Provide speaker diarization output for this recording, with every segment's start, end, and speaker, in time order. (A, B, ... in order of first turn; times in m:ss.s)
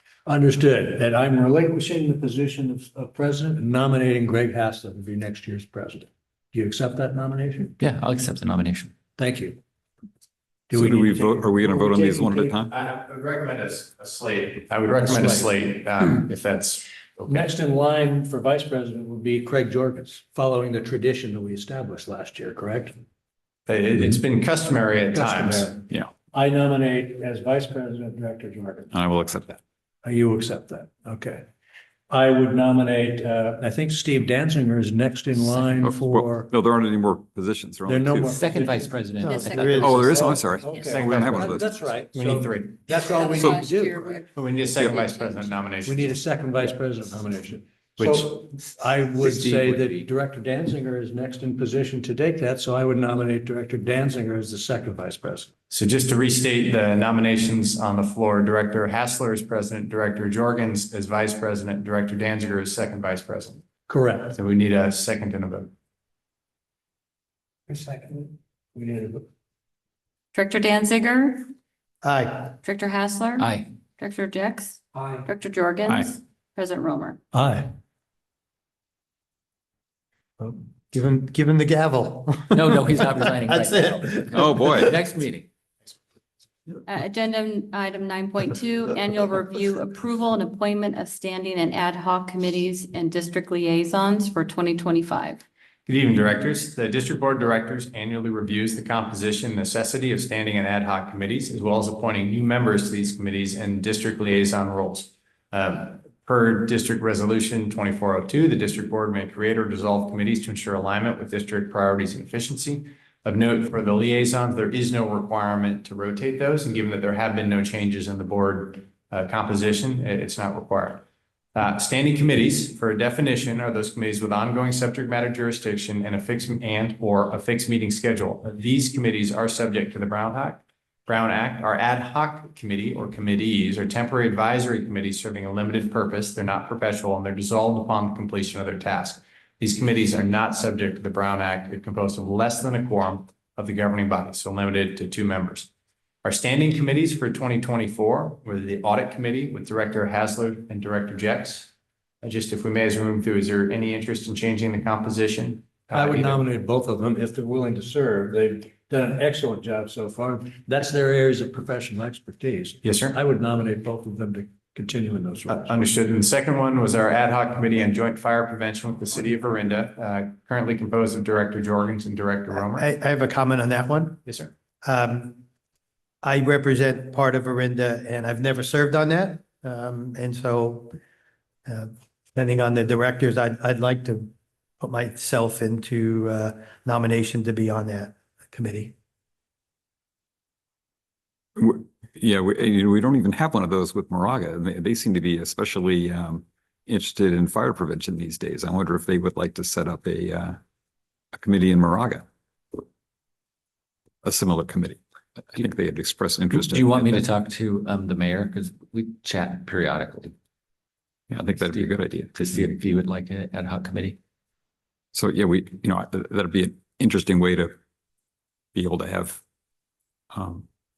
0:00.3-0:07.8 A
0:07.8-0:08.9 B
0:09.2-0:09.6 A
0:10.7-0:12.6 A
0:10.7-0:12.7 C
0:12.7-0:17.4 D
0:15.0-0:15.6 A
0:17.3-0:23.0 A
0:23.7-0:25.8 D
0:25.1-0:28.9 A
0:28.9-0:29.6 C
0:30.0-0:31.5 A
0:32.1-0:36.5 A
0:35.8-0:38.3 C
0:37.9-0:39.0 A
0:38.2-0:40.3 B
0:39.2-0:40.0 E
0:39.3-0:41.0 F
0:39.8-0:41.7 C
0:40.1-0:44.3 A
0:40.9-0:41.6 D
0:42.1-0:42.9 D
0:43.0-0:44.2 F
0:44.4-0:46.2 D
0:44.8-0:45.5 F
0:45.8-0:55.5 A
0:48.0-0:48.4 D
0:49.2-0:50.1 B
0:55.7-1:03.6 D
1:03.9-1:04.4 A
1:04.3-1:05.7 D
1:07.7-1:09.2 A
1:10.3-1:11.4 F
1:12.0-1:12.6 E
1:12.6-1:17.2 F
1:13.4-1:13.7 B
1:15.0-1:15.3 A
1:17.3-1:17.7 A
1:20.4-1:24.7 E
1:22.5-1:25.5 B
1:24.3-1:25.0 C
1:26.9-1:35.4 F
1:35.9-2:25.7 D
2:26.2-2:36.4 D
2:35.9-2:45.9 A
2:42.8-2:43.2 D
2:45.5-2:52.9 D
2:52.6-2:54.2 E
2:54.2-2:54.5 D
2:54.8-2:55.4 E
2:56.2-3:00.9 E
3:01.7-3:08.9 E
3:11.6-3:20.6 C
3:21.3-3:22.2 C
3:24.2-3:27.3 C
3:26.5-3:30.3 B
3:31.3-3:32.7 C
3:31.4-3:34.2 B
3:35.1-3:37.8 C
3:38.8-3:39.4 C
3:40.3-3:40.7 C